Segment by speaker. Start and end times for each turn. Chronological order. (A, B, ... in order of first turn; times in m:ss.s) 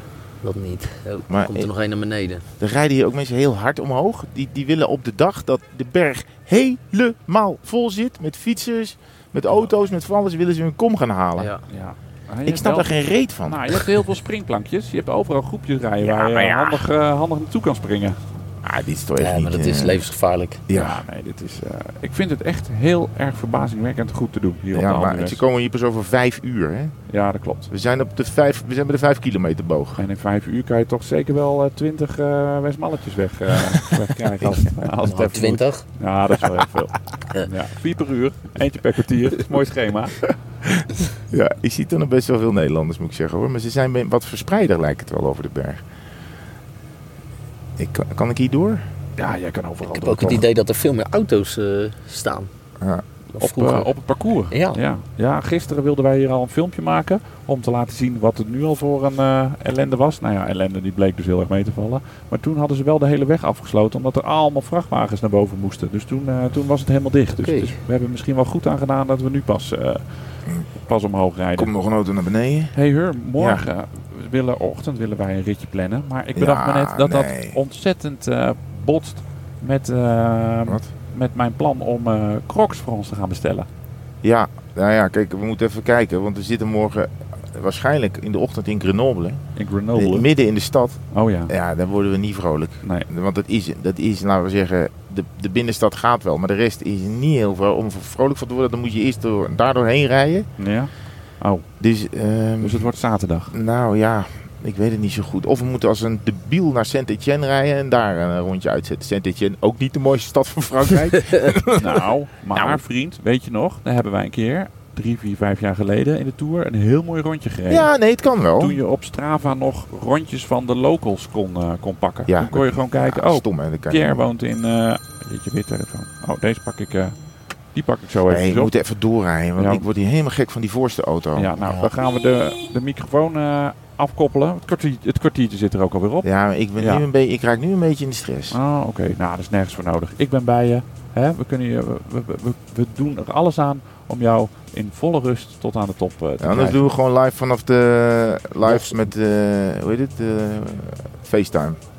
0:00.4-0:02.4 A
0:01.3-0:01.7 B
0:02.6-0:11.5 B
0:11.4-0:11.6 A
0:11.7-0:12.9 C
0:12.5-0:14.0 B
0:13.4-0:18.2 C
0:16.0-0:16.8 B
0:18.6-0:20.0 B
0:19.2-0:20.6 A
0:20.7-0:21.0 B
0:20.7-0:25.4 C
0:24.7-0:26.9 B
0:27.1-0:27.7 C
0:27.7-0:30.0 B
0:30.0-0:40.4 C
0:35.0-0:35.9 A
0:41.3-0:45.8 B
0:47.8-0:48.8 B
0:49.2-0:50.5 C
0:49.8-0:52.5 A
0:53.4-1:10.0 C
0:53.4-0:53.9 A
0:54.5-0:54.8 A
1:07.4-1:07.8 A
1:10.8-1:11.7 C
1:11.6-1:12.7 B
1:12.7-1:23.7 C
1:13.4-1:13.6 B
1:16.4-1:17.6 B
1:24.2-1:29.4 B
1:29.6-1:30.3 C
1:30.0-1:40.5 B
1:31.1-1:31.5 C
1:40.6-1:41.6 C
1:41.8-1:42.9 B
1:42.6-1:43.6 C
1:43.5-1:52.0 B
1:51.8-1:57.9 C
1:52.5-1:52.8 B
1:57.7-1:58.8 B
1:58.6-2:07.2 C
2:02.3-2:04.2 B
2:07.7-2:08.7 C
2:08.3-2:11.5 B
2:09.6-2:09.9 C
2:11.4-2:16.3 C
2:11.6-2:11.9 A
2:16.2-2:18.6 B
2:16.8-2:17.0 C
2:18.5-2:26.8 C
2:26.4-2:31.8 B
2:28.6-2:29.0 A